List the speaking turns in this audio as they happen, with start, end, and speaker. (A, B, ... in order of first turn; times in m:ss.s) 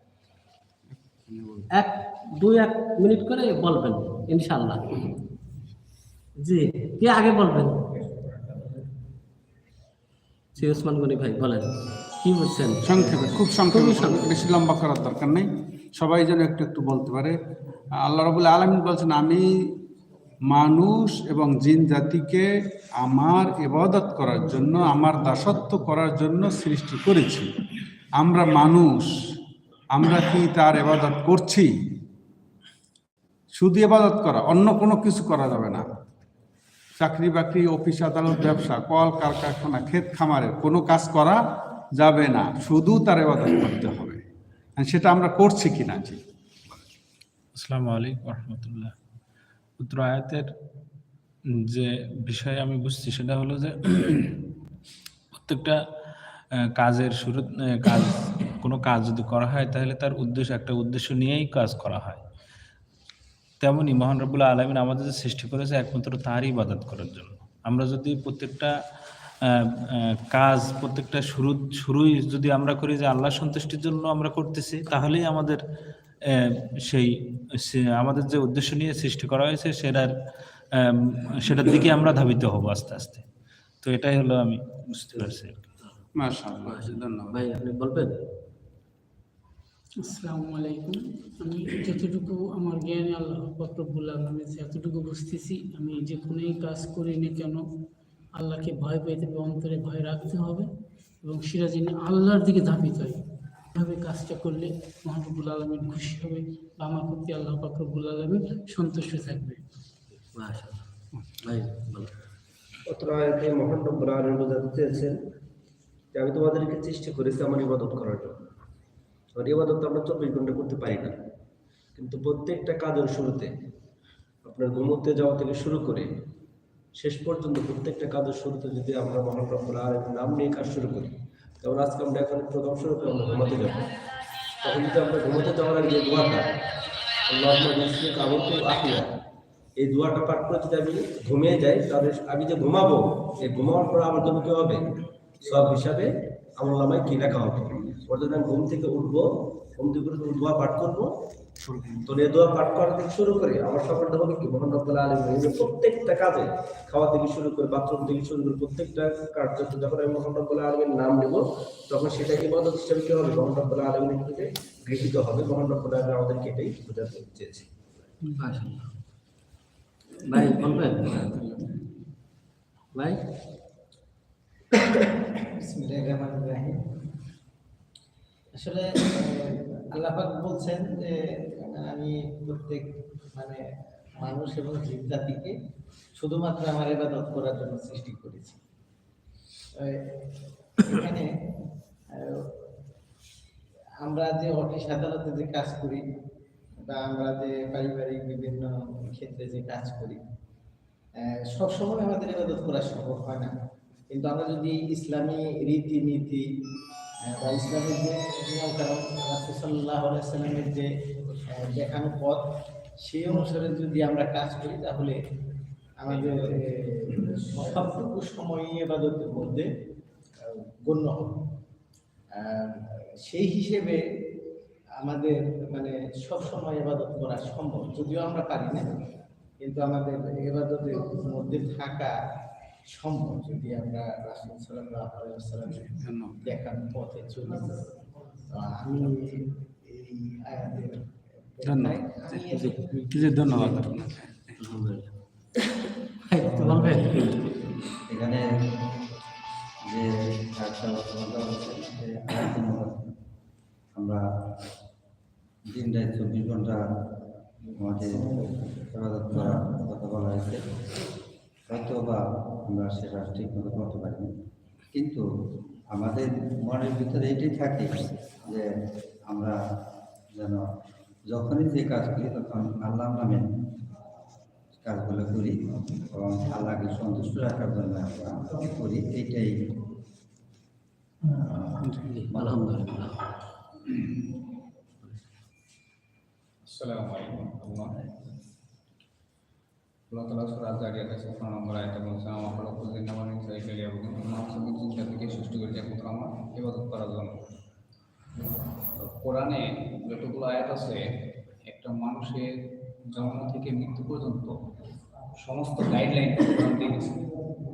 0:01.3-0:01.6 A
0:01.8-0:05.0 B
0:06.4-0:07.8 B
0:08.2-0:08.7 C
0:10.6-0:14.4 B
0:12.9-0:17.4 A
0:18.0-0:19.4 A
0:20.5-0:22.5 A
0:23.0-0:27.5 A
0:28.2-0:29.1 A
0:29.9-0:31.7 A
0:33.5-0:35.8 A
0:37.0-0:41.4 A
0:42.0-0:44.2 A
0:44.8-0:46.2 A
0:47.6-0:48.9 D
0:49.8-0:50.5 D
0:51.7-0:54.3 D
0:55.3-0:55.8 D
0:56.8-1:02.2 D
1:03.6-1:08.7 D
1:09.5-1:09.8 D
1:10.3-1:15.6 D
1:16.4-1:20.1 D
1:20.7-1:23.2 D
1:23.8-1:25.6 D
1:26.2-1:27.4 A
1:26.6-1:28.1 B
1:30.0-1:37.7 E
1:38.4-1:40.7 E
1:41.2-1:43.2 E
1:43.8-1:49.6 E
1:50.3-1:50.8 B
1:51.4-1:52.1 B
1:52.9-1:55.2 F
1:56.1-1:58.4 F
1:59.4-2:01.2 F
2:02.0-2:03.5 F
2:04.4-2:06.1 F
2:07.0-2:13.9 F
2:14.6-2:16.6 F
2:17.3-2:19.2 F
2:19.8-2:31.1 F
2:31.7-2:47.7 F
2:48.4-2:48.9 B
2:50.2-2:51.5 B
2:55.0-2:56.8 C
2:58.6-3:03.6 C
3:04.2-3:05.5 C
3:06.2-3:08.6 C
3:10.8-3:11.2 C
3:14.0-3:16.0 C
3:16.8-3:20.2 C
3:21.2-3:23.5 C
3:24.1-3:26.4 C
3:27.2-3:30.9 C
3:31.5-3:32.4 C
3:33.0-3:35.1 C
3:36.0-3:36.6 C
3:36.1-3:36.5 G
3:37.1-3:39.7 C
3:40.4-3:41.3 C
3:42.4-3:42.7 C
3:43.3-3:44.0 C
3:45.0-3:48.9 C
3:49.6-3:52.1 C
3:52.9-3:55.9 C
3:55.9-3:56.5 A
3:56.4-3:57.8 C
3:58.5-4:03.3 C
4:01.7-4:02.0 A
4:02.5-4:02.8 B
4:03.1-4:04.4 A
4:04.6-4:05.1 B
4:06.3-4:07.4 B
4:06.5-4:07.3 H
4:08.1-4:08.4 H
4:09.9-4:13.0 H
4:14.0-4:14.2 H
4:15.7-4:16.8 H
4:17.8-4:20.6 H
4:21.7-4:24.3 H
4:24.9-4:25.2 H
4:25.9-4:28.7 H
4:29.3-4:29.6 H
4:30.4-4:30.6 H
4:31.3-4:33.5 H
4:34.8-4:39.5 H
4:42.1-4:43.2 B
4:42.3-4:42.6 H
4:46.7-4:47.9 G
4:50.1-4:57.4 G
4:59.0-5:01.0 G
5:01.7-5:02.5 G
5:03.1-5:04.6 G
5:05.4-5:07.1 G